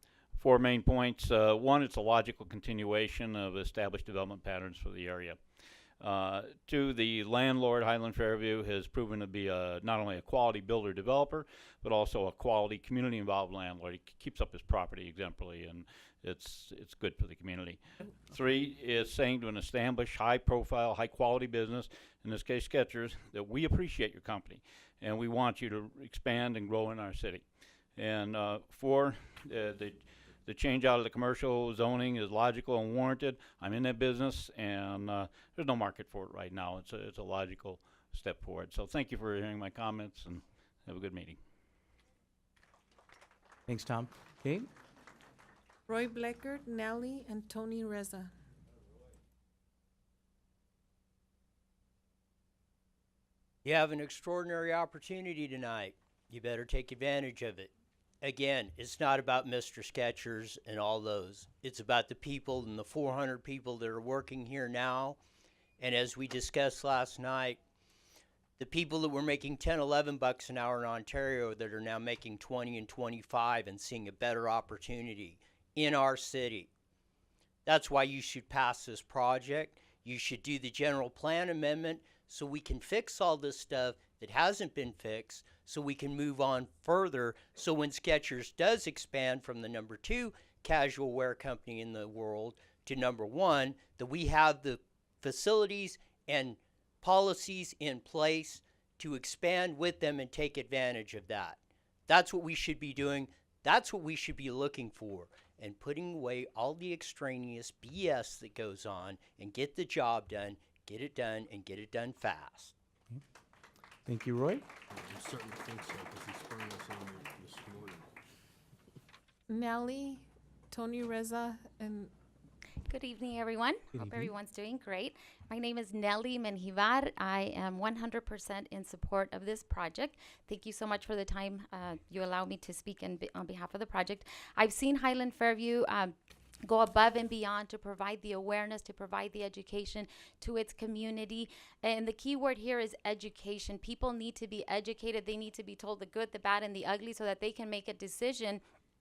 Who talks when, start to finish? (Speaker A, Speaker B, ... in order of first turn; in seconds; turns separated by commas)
Speaker A: 0.3-5.4, Speaker A: 6.0-27.4, Speaker A: 28.0-41.4, Speaker B: 43.7-44.7, Speaker C: 45.9-48.3, Speaker D: 53.6-57.7, Speaker D: 58.2-65.2, Speaker D: 65.8-67.6, Speaker D: 68.6-76.7, Speaker D: 77.7-112.7, Speaker B: 114.0-114.7, Speaker E: 114.9-118.1, Speaker C: 119.5-122.1, Speaker F: 122.8-148.6, Speaker B: 124.0-124.3